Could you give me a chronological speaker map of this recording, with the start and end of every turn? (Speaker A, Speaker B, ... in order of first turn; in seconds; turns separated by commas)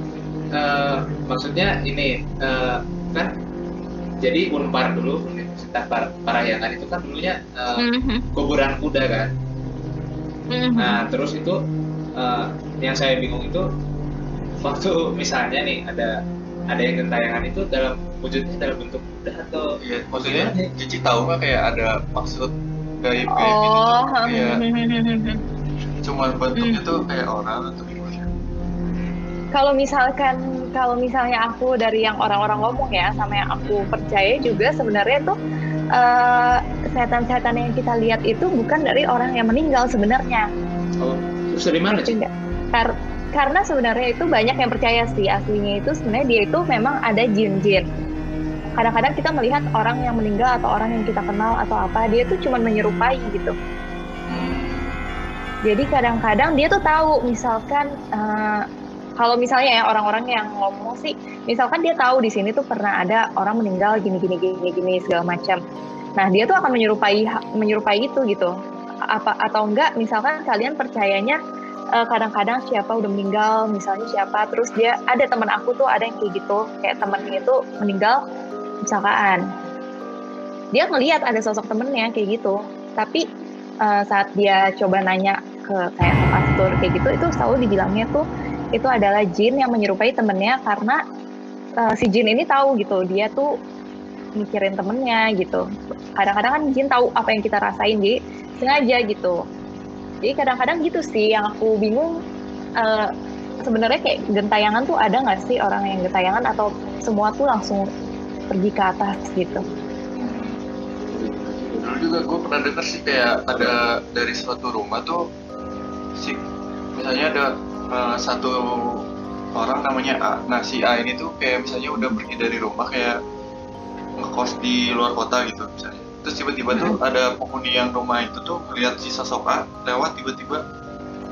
Speaker A: 0.5-3.3, Speaker A: 4.2-9.3, Speaker B: 7.8-8.2, Speaker B: 10.5-11.1, Speaker A: 10.8-11.6, Speaker A: 12.2-13.7, Speaker A: 14.6-16.1, Speaker A: 16.7-20.7, Speaker C: 19.8-22.5, Speaker C: 23.0-24.6, Speaker B: 23.3-25.4, Speaker C: 26.0-28.3, Speaker B: 26.6-26.8, Speaker B: 29.5-35.4, Speaker B: 36.0-40.5, Speaker A: 41.0-42.1, Speaker B: 42.0-47.9, Speaker B: 48.8-53.5, Speaker C: 54.3-55.0, Speaker B: 55.7-58.6, Speaker B: 59.2-65.6, Speaker B: 66.2-68.5, Speaker B: 69.1-71.4, Speaker B: 72.0-78.2, Speaker B: 78.9-79.4, Speaker B: 80.7-83.2, Speaker B: 83.8-88.2, Speaker B: 88.7-91.0, Speaker B: 91.8-93.5, Speaker B: 94.4-95.6, Speaker B: 96.2-99.4, Speaker B: 100.2-102.1, Speaker B: 102.8-103.1, Speaker B: 103.6-107.9, Speaker B: 108.5-109.6, Speaker C: 110.2-110.6, Speaker A: 111.1-111.9, Speaker C: 111.8-115.2, Speaker C: 117.0-119.0, Speaker C: 119.5-123.2, Speaker C: 124.2-130.6